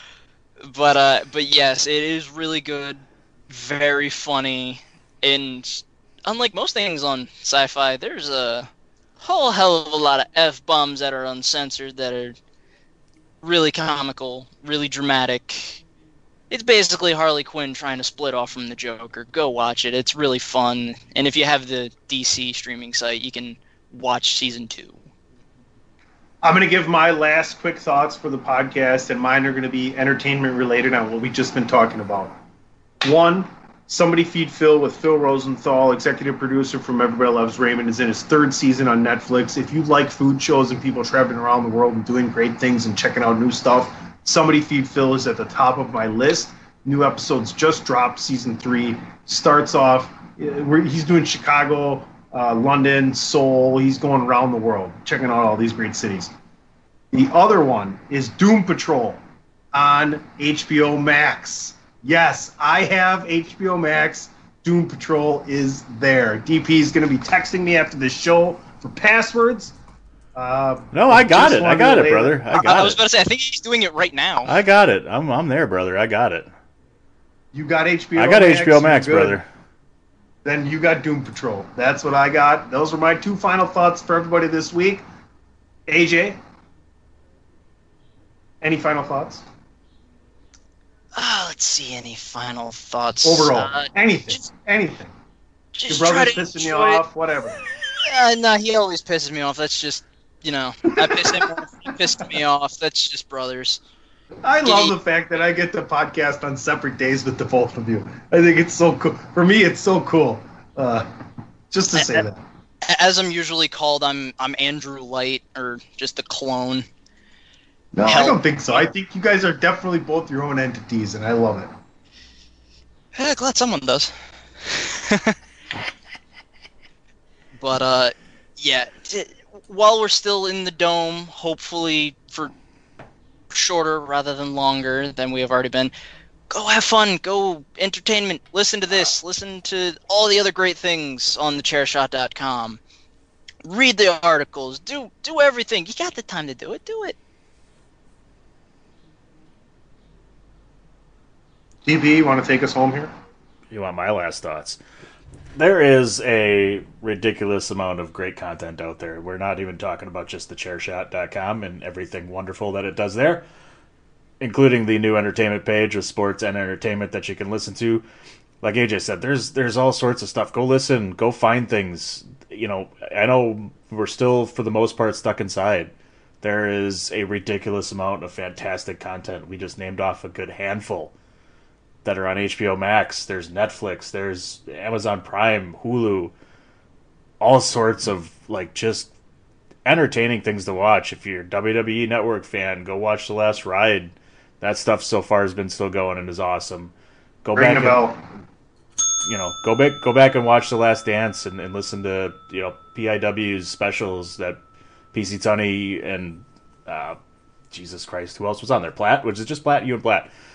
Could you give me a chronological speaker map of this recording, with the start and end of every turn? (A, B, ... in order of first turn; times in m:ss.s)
0:00.6-0:08.7 A
0:09.2-0:12.4 A
0:13.4-0:15.8 A
0:16.5-0:25.0 A
0:26.4-0:32.3 B
0:33.0-0:56.3 B
0:57.1-0:59.2 B
0:59.7-1:09.8 B
1:10.3-1:12.7 B
1:10.9-1:13.0 C
1:12.5-1:14.5 A
1:14.4-1:16.5 C
1:17.5-1:19.4 B
1:18.2-1:19.5 C
1:20.4-1:25.0 B
1:25.9-1:26.4 B
1:28.6-1:29.4 B
1:31.2-1:34.4 A
1:33.2-1:35.1 B
1:35.7-1:37.0 A
1:35.9-1:37.6 B
1:38.0-1:43.8 A
1:41.0-1:41.5 B
1:44.4-1:51.1 B
1:44.6-1:44.9 A
1:51.7-1:52.4 B
1:52.0-1:52.2 A
1:52.8-1:56.8 A
1:57.9-2:01.7 B
1:58.1-1:58.9 A
2:03.1-2:04.1 A
2:04.6-2:05.4 A
2:07.6-2:12.5 A
2:13.5-2:15.9 A
2:16.5-2:22.8 A
2:23.6-2:27.2 A
2:31.8-2:33.1 B
2:33.7-2:34.8 C
2:35.6-2:43.4 C
2:44.4-2:48.0 C
2:48.6-3:01.1 C
3:02.0-3:06.3 C
3:07.4-3:09.1 C
3:09.8-3:16.9 C
3:17.4-3:18.0 C
3:17.5-3:18.2 B
3:19.2-3:24.6 C
3:25.1-3:27.2 C
3:27.7-3:30.3 C